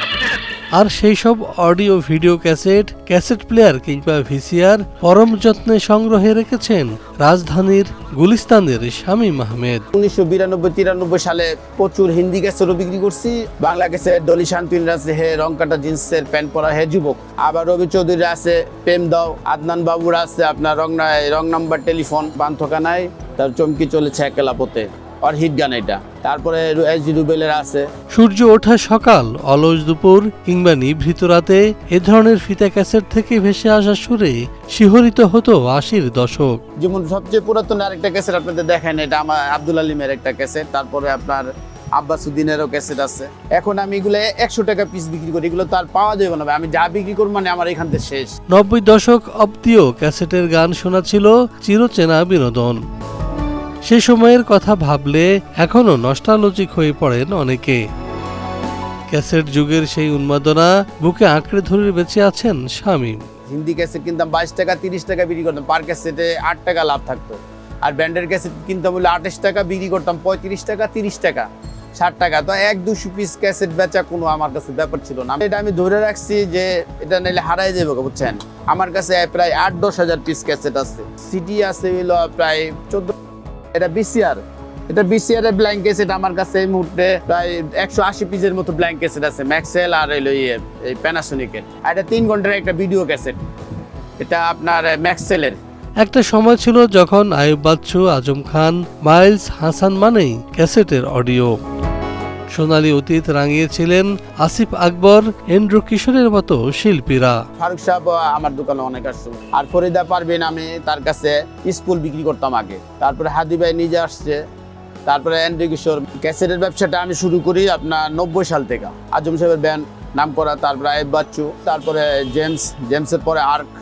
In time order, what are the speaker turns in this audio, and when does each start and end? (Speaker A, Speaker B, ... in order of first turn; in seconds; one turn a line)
Speaker A: 0.7-9.8
Speaker B: 9.9-27.9
Speaker A: 28.1-36.6
Speaker B: 36.8-48.3
Speaker A: 48.5-52.8
Speaker A: 53.8-57.8
Speaker A: 59.1-63.2
Speaker B: 63.5-83.1
Speaker B: 83.7-93.4
Speaker B: 94.2-95.6
Speaker A: 96.0-101.5
Speaker A: 102.5-107.4
Speaker B: 107.6-114.4
Speaker B: 115.0-123.7